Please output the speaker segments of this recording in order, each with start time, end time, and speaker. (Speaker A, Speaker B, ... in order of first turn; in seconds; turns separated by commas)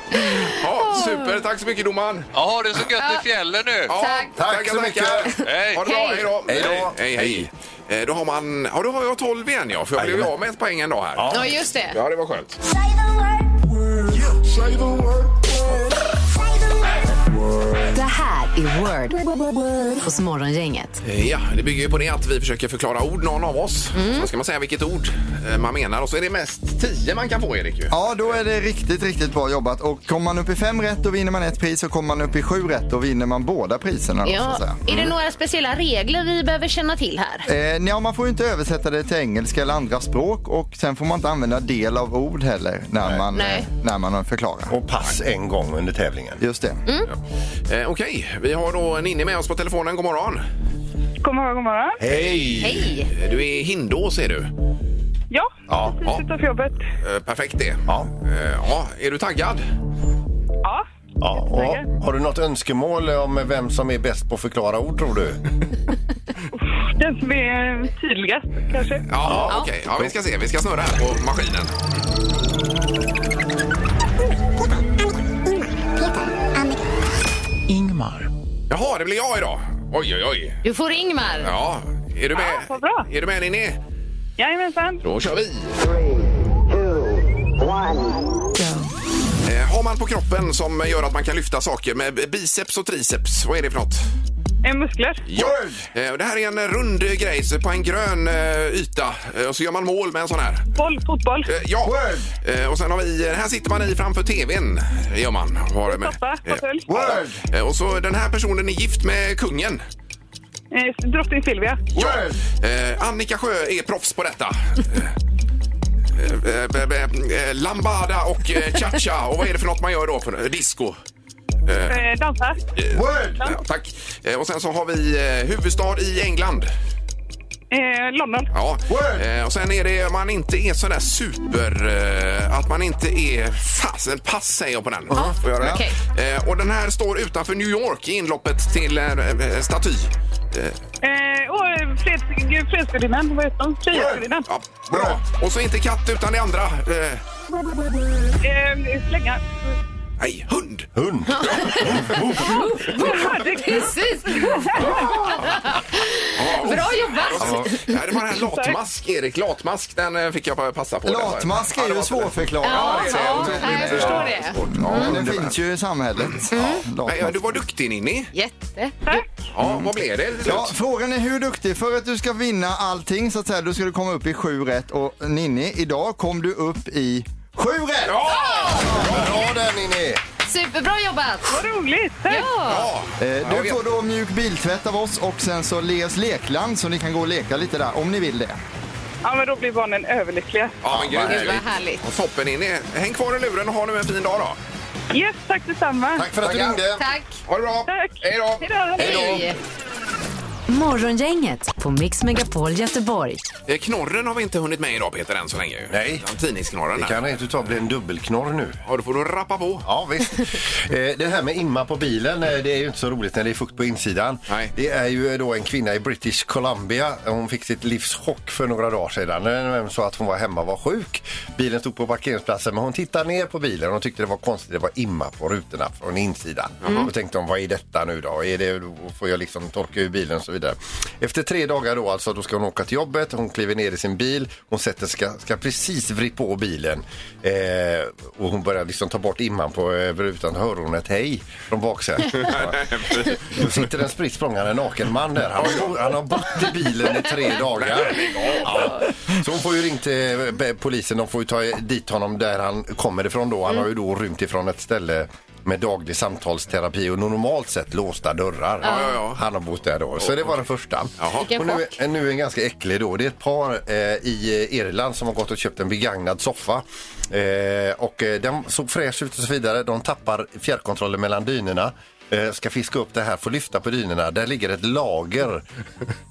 Speaker A: 0.2-1.3, Speaker B: 0.4-2.3, Speaker C: 2.3-4.0, Speaker A: 3.0-3.3, Speaker B: 3.9-11.3, Speaker A: 4.0-4.3, Speaker D: 4.4-5.3, Speaker A: 5.4-6.3, Speaker C: 5.4-6.3, Speaker D: 6.5-7.5, Speaker D: 10.0-10.3, Speaker D: 11.2-11.6, Speaker A: 11.3-12.0, Speaker B: 11.9-12.6, Speaker E: 17.9-19.2, Speaker E: 20.0-21.0, Speaker B: 21.0-27.9, Speaker A: 23.9-24.3, Speaker F: 27.9-34.8, Speaker A: 34.2-37.5, Speaker F: 37.5-44.7, Speaker A: 43.3-43.7, Speaker D: 44.7-46.4, Speaker F: 46.4-46.8, Speaker B: 47.7-50.4, Speaker G: 51.2-52.0, Speaker D: 52.0-52.9, Speaker A: 52.6-53.1, Speaker B: 53.1-54.5, Speaker G: 55.3-56.8, Speaker D: 55.7-56.0, Speaker B: 57.0-59.6, Speaker G: 60.6-61.9, Speaker D: 61.2-65.4, Speaker G: 66.6-69.0, Speaker B: 69.1-71.7, Speaker D: 69.2-70.1, Speaker D: 77.8-78.2, Speaker B: 78.7-80.6, Speaker A: 80.6-81.5, Speaker B: 81.4-83.8, Speaker G: 82.3-83.1, Speaker G: 84.4-85.0, Speaker B: 85.0-85.8, Speaker B: 89.4-94.1, Speaker G: 94.6-95.2, Speaker B: 95.3-100.7, Speaker F: 95.3-95.9, Speaker G: 100.7-101.5, Speaker B: 101.5-109.8, Speaker F: 101.8-102.3, Speaker G: 105.9-106.8, Speaker F: 106.9-107.4, Speaker G: 110.7-111.9, Speaker B: 111.9-115.1, Speaker F: 112.0-112.4, Speaker B: 116.1-121.0, Speaker B: 121.7-122.0, Speaker G: 121.8-122.6, Speaker B: 122.8-126.7, Speaker F: 122.9-123.4, Speaker G: 127.7-128.5, Speaker B: 128.5-140.8, Speaker F: 128.9-129.2, Speaker A: 135.1-136.0, Speaker G: 141.0-144.5, Speaker B: 144.1-147.2, Speaker G: 148.4-149.7, Speaker B: 150.2-150.9, Speaker D: 150.9-152.7, Speaker A: 151.3-158.0, Speaker G: 152.9-155.1, Speaker B: 156.3-165.5, Speaker G: 158.4-158.8, Speaker F: 161.1-167.6, Speaker A: 162.6-165.2, Speaker A: 166.5-166.8, Speaker B: 166.6-168.3, Speaker A: 168.3-169.0, Speaker B: 169.5-170.8, Speaker F: 170.4-178.1, Speaker B: 178.1-179.2, Speaker A: 178.3-178.9, Speaker D: 178.9-180.2, Speaker A: 180.4-181.6, Speaker G: 181.5-182.5, Speaker A: 182.3-182.9, Speaker B: 182.7-183.8, Speaker F: 183.2-188.6, Speaker G: 189.2-190.8, Speaker B: 190.8-194.6, Speaker D: 190.9-191.6, Speaker A: 191.2-192.0, Speaker G: 195.1-196.3, Speaker D: 196.2-197.1, Speaker A: 197.0-197.4, Speaker B: 197.5-199.4, Speaker G: 197.9-199.5, Speaker A: 199.0-199.6, Speaker E: 200.7-203.4, Speaker B: 203.7-207.2, Speaker D: 205.9-206.2, Speaker D: 206.9-208.8, Speaker B: 208.9-209.9, Speaker D: 209.8-275.6, Speaker B: 226.8-227.1, Speaker B: 242.4-243.5, Speaker B: 245.6-246.0, Speaker B: 247.7-249.0, Speaker B: 258.8-259.4, Speaker A: 258.9-259.2, Speaker B: 260.2-260.5, Speaker B: 261.2-261.5, Speaker A: 261.4-261.9